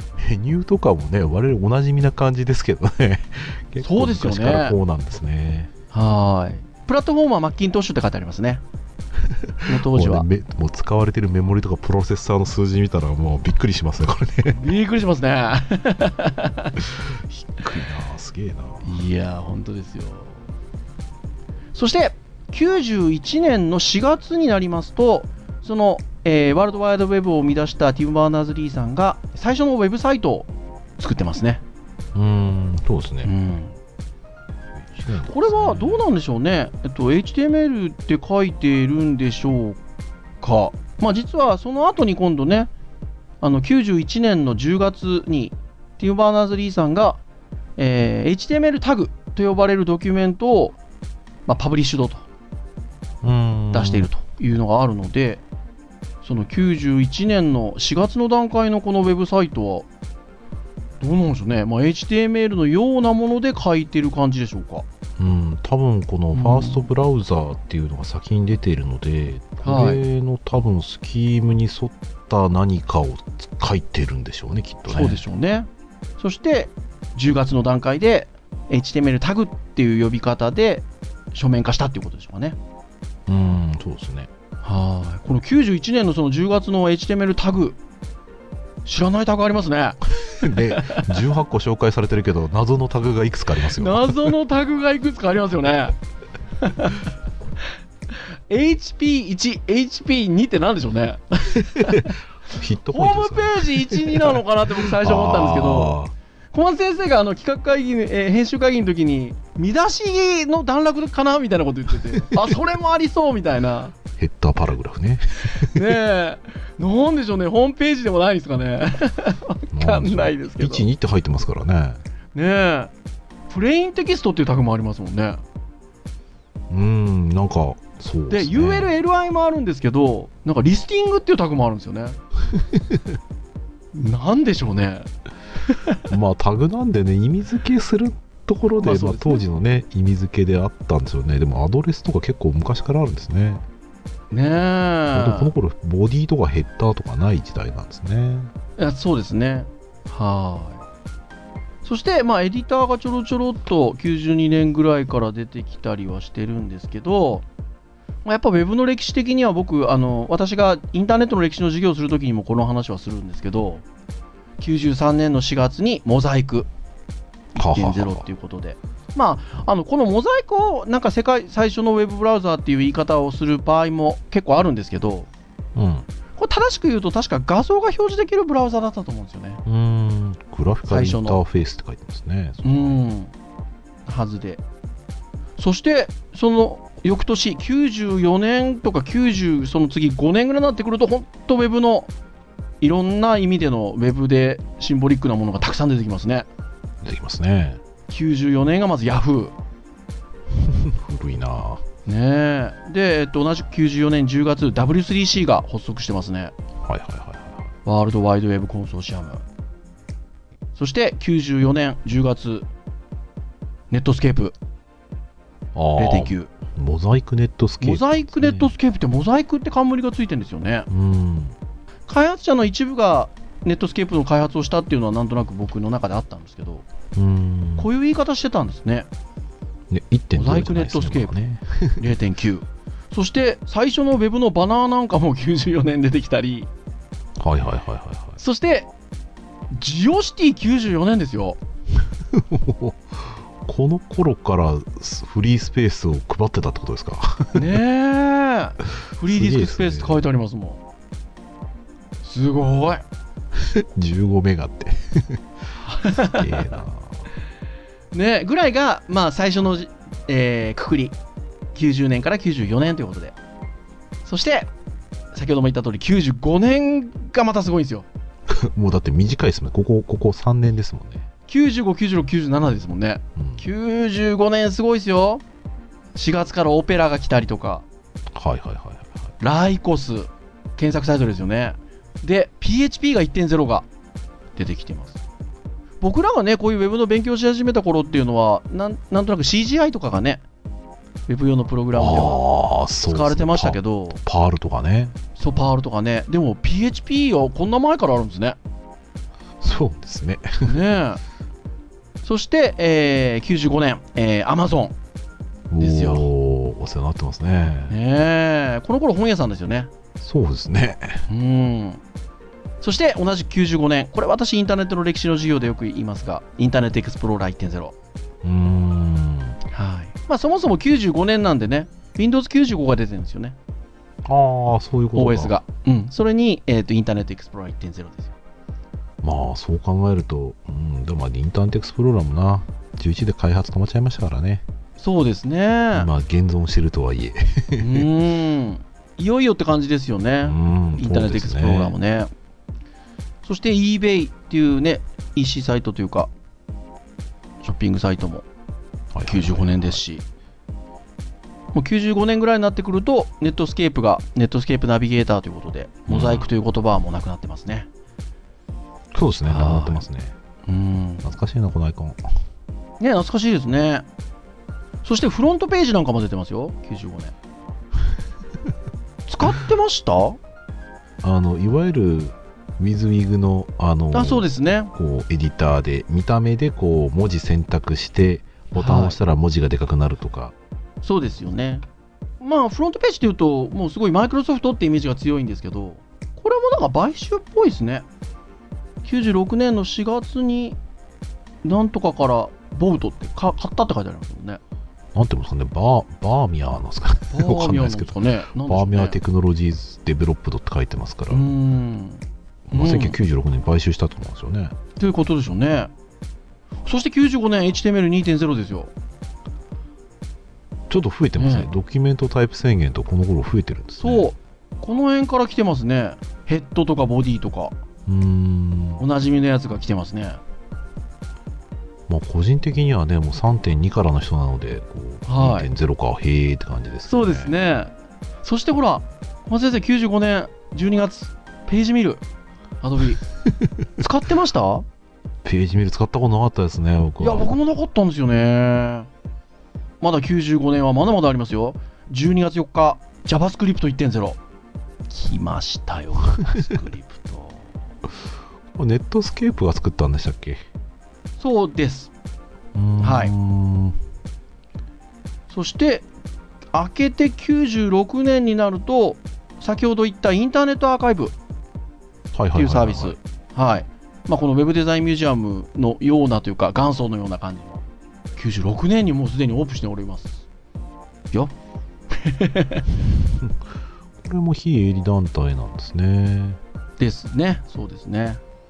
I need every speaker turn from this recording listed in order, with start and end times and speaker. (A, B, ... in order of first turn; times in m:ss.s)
0:00.2-0:05.7 A
0:03.8-0:04.8 B
0:05.9-0:08.6 B
0:09.2-0:14.6 A
0:09.7-0:10.3 B
0:14.5-0:16.8 B
0:16.8-0:18.9 A
0:18.8-0:20.4 B
0:21.7-0:31.6 B
0:32.1-0:33.3 A
0:33.2-0:33.8 B
0:34.8-0:36.0 A
0:35.3-0:39.8 B
0:40.4-0:42.7 B
0:43.4-0:47.2 B
0:47.8-0:50.8 B
0:51.5-0:52.2 B
0:53.2-0:54.1 A
0:53.7-0:55.4 B
0:56.2-0:59.9 B
1:01.0-1:04.8 B
1:05.2-1:15.2 A
1:06.3-1:06.9 B
1:09.6-1:10.0 B
1:14.9-1:22.6 B
1:23.3-1:24.3 A
1:24.6-1:27.8 B
1:28.8-1:31.1 B
1:30.1-1:34.3 A
1:33.8-1:36.0 B
1:36.6-1:37.0 B
1:38.5-1:42.2 B
1:41.8-1:46.1 A
1:42.9-1:46.0 B
1:46.5-1:54.0 B
1:54.2-1:55.9 A
1:55.6-2:00.8 B
1:59.7-2:02.0 A
2:02.3-2:02.9 B
2:03.5-2:05.4 B
2:06.7-2:08.9 A
2:08.3-2:12.2 B
2:12.5-2:13.0 A
2:13.9-2:15.1 B
2:15.6-2:16.0 B
2:16.1-2:23.6 A
2:18.8-2:19.4 B
2:24.3-2:25.5 B
2:25.1-2:28.5 A
2:28.8-2:30.8 B
2:31.8-2:37.4 B
2:38.2-2:43.8 B
2:44.6-2:46.7 B
2:47.6-2:48.2 A
2:47.6-2:55.3 B
2:55.7-2:56.1 A
2:56.4-2:59.6 B
2:59.6-3:03.0 A
3:00.9-3:01.4 B
3:02.6-3:03.3 B
3:04.0-3:04.6 B
3:05.6-3:12.1 B
3:12.8-3:16.5 B
3:17.0-3:17.8 A
3:18.1-3:19.5 B
3:20.6-3:21.8 A
3:22.0-3:26.5 B
3:26.8-3:27.7 A
3:27.8-3:29.4 B
3:30.8-3:32.6 B
3:33.9-3:34.6 B
3:35.7-3:38.7 A
3:36.0-3:36.5 B
3:37.8-3:40.9 B
3:40.9-3:41.6 A
3:42.1-3:46.8 B
3:47.1-3:47.9 A
3:47.8-3:49.1 B
3:49.9-3:52.0 A
3:50.3-3:51.3 B
3:52.0-3:56.7 B
3:57.4-3:58.4 A
3:58.4-3:58.9 B
3:59.7-4:01.6 B
4:02.2-4:07.6 A
4:07.5-4:10.8 B
4:09.2-4:10.2 A
4:12.2-4:13.0 B
4:13.5-4:15.4 A
4:15.8-4:16.7 B
4:16.0-4:17.2 A
4:18.1-4:21.1 B
4:21.7-4:23.4 B
4:24.2-4:24.7 B
4:25.3-4:28.0 B
4:28.5-4:31.2 A
4:31.5-4:35.4 B
4:33.4-4:33.6 A
4:36.1-4:37.8 B
4:38.3-4:39.3 A
4:39.4-4:43.9 B
4:44.6-4:45.2 B
4:46.0-4:50.4 B
4:51.3-4:52.4 B
4:51.9-4:55.2 A
4:53.1-4:54.2 B
4:55.4-4:58.6 B
4:59.6-5:00.7 A
5:00.6-5:01.2 B
5:02.2-5:04.9 B
5:05.7-5:08.0 A
5:05.8-5:06.3 B
5:07.9-5:09.9 B
5:10.2-5:11.2 A
5:11.3-5:12.0 B
5:12.8-5:17.9 B
5:18.4-5:19.6 A
5:19.7-5:23.6 B
5:24.2-5:25.6 A
5:25.1-5:28.3 B
5:29.2-5:34.6 A
5:35.0-5:36.1 B
5:35.9-5:38.1 A
5:37.8-5:42.3 B
5:40.4-5:41.9 A
5:43.4-5:46.3 B
5:47.6-5:48.4 B
5:49.1-5:50.0 A
5:49.3-5:50.2 B
5:51.7-5:57.9 B
5:56.1-5:56.5 A
5:59.1-6:00.3 A
5:59.5-6:00.0 B
6:00.6-6:01.3 B
6:01.2-6:02.2 A
6:03.0-6:04.0 B
6:05.0-6:07.3 B
6:09.3-6:10.4 B
6:11.2-6:20.5 A
6:14.1-6:14.9 B
6:18.7-6:19.2 B
6:21.0-6:21.8 B
6:22.4-6:28.0 B
6:29.0-6:30.8 B
6:31.6-6:34.6 B
6:35.1-6:41.4 A
6:37.3-6:39.2 B
6:41.3-6:43.2 B
6:42.7-6:44.7 A
6:45.0-6:45.9 B
6:46.8-6:48.9 B
6:50.9-6:54.3 A
6:51.4-6:51.7 B
6:54.0-6:57.7 B
6:58.1-6:59.0 A
6:59.0-7:00.4 B
7:02.1-7:07.5 A
7:05.3-7:05.7 B
7:07.1-7:07.9 B
7:08.4-7:12.2 B
7:12.8-7:13.2 B
7:13.4-7:13.7 A
7:14.0-7:14.8 B
7:15.4-7:17.5 A
7:17.2-7:19.1 B
7:20.0-7:24.4 B
7:25.1-7:27.6 B
7:28.7-7:30.6 A
7:31.4-7:32.1 B
7:32.7-7:34.0 A
7:33.0-7:33.3 B
7:35.5-7:36.0 B
7:36.7-7:41.3 B
7:42.3-7:43.2 A
7:42.6-7:47.8 B
7:48.4-7:50.4 B
7:52.1-7:52.9 B
7:54.2-7:56.6 A
7:57.0-7:58.4 B